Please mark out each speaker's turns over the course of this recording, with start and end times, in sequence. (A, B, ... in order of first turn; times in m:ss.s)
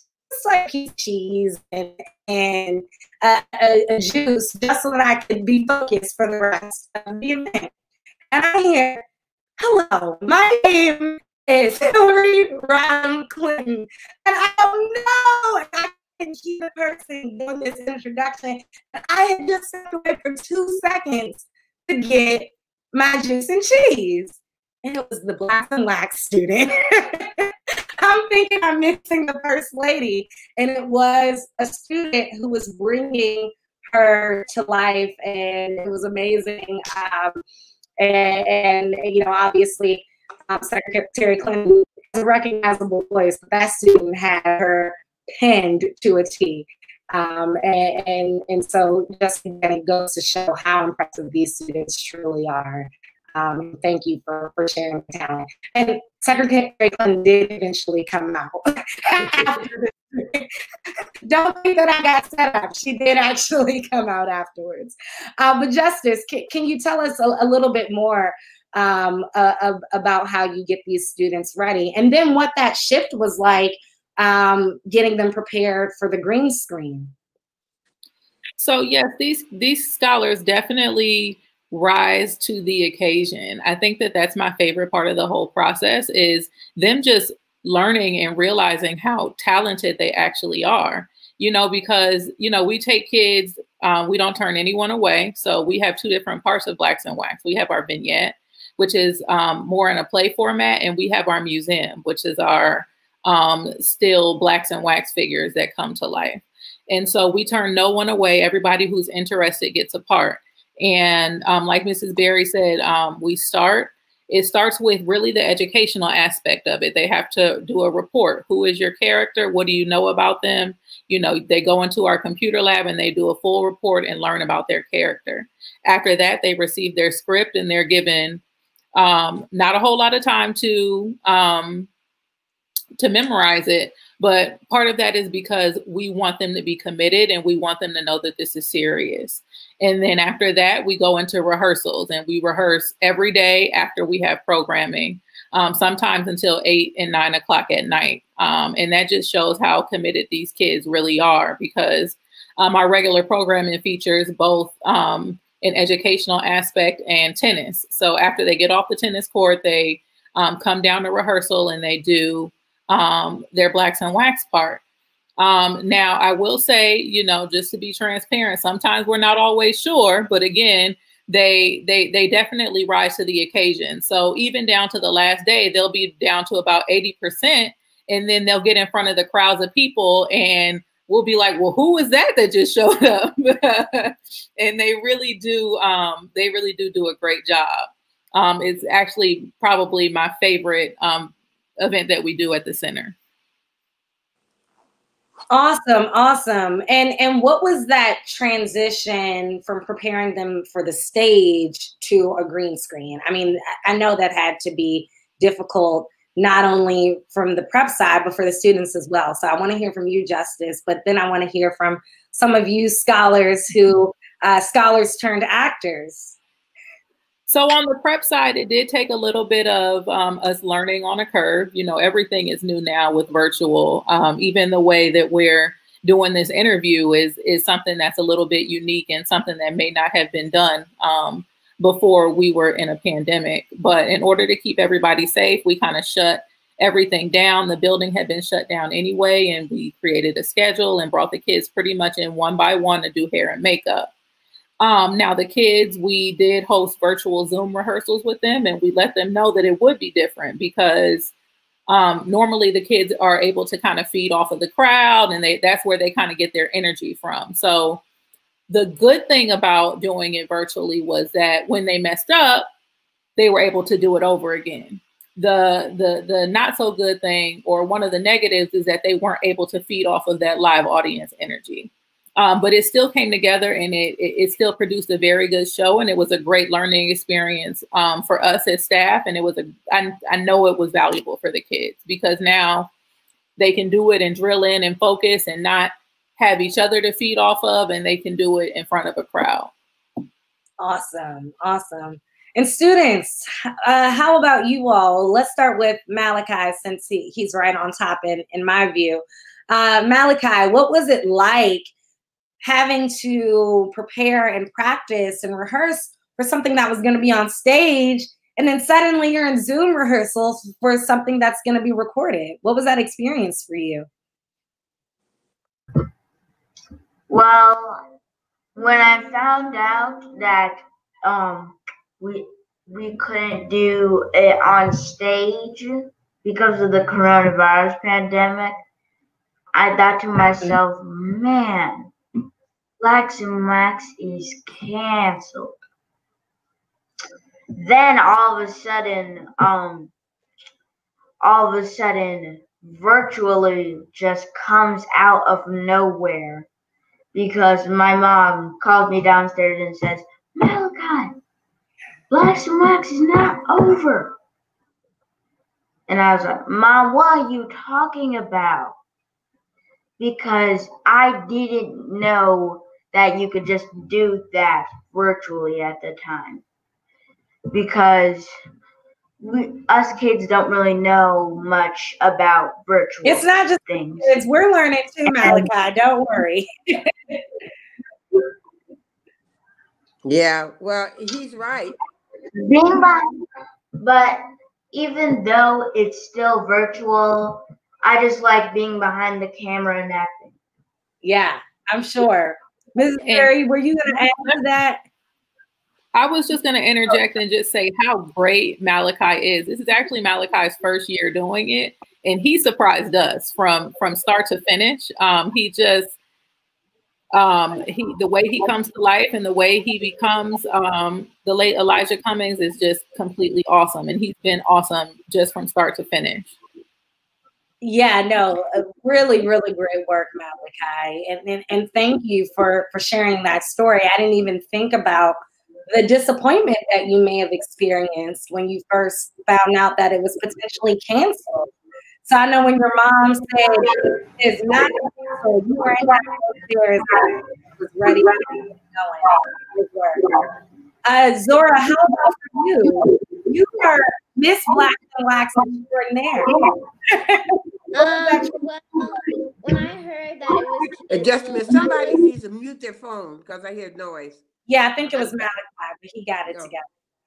0:00.3-0:07.7 A
0:08.3-0:09.0 A
0:09.6-0:37.4 A
0:38.0-1:00.5 A
1:01.2-1:17.1 A
1:18.6-2:08.4 B
2:09.0-2:11.9 B
2:13.0-2:44.8 B
2:45.4-3:13.2 B
3:15.5-3:36.4 A
3:37.5-4:04.1 B
4:04.8-4:11.3 B
4:11.9-4:18.0 B
4:18.7-4:22.7 B
4:23.4-4:42.9 B
4:43.6-4:49.7 B
4:50.8-5:01.9 A
5:02.6-5:14.1 A
5:17.3-5:18.0 C
5:18.8-5:28.8 C
5:29.7-5:32.1 C
5:33.0-5:35.8 C
5:37.7-5:40.1 C
5:41.4-5:46.7 C
5:47.3-5:51.3 C
5:52.3-5:54.4 C
5:56.1-5:59.0 C
6:00.2-6:06.6 C
6:07.7-6:08.5 C
6:09.4-6:14.4 C
6:13.2-6:17.4 A
6:15.4-6:15.7 C
6:20.2-6:22.0 D
6:22.6-6:23.3 C
6:24.0-6:30.6 C
6:31.2-6:35.0 A
6:33.2-6:33.5 B
6:36.1-6:46.2 B
6:47.3-6:56.6 B
6:57.8-7:05.4 A
7:05.9-7:11.7 A
7:12.3-7:20.2 A
7:21.1-7:26.6 A
7:27.1-7:27.5 A
7:27.9-7:32.2 E
7:28.0-7:28.5 A
7:31.1-7:34.4 D
7:34.7-7:36.9 A
7:35.1-7:35.4 D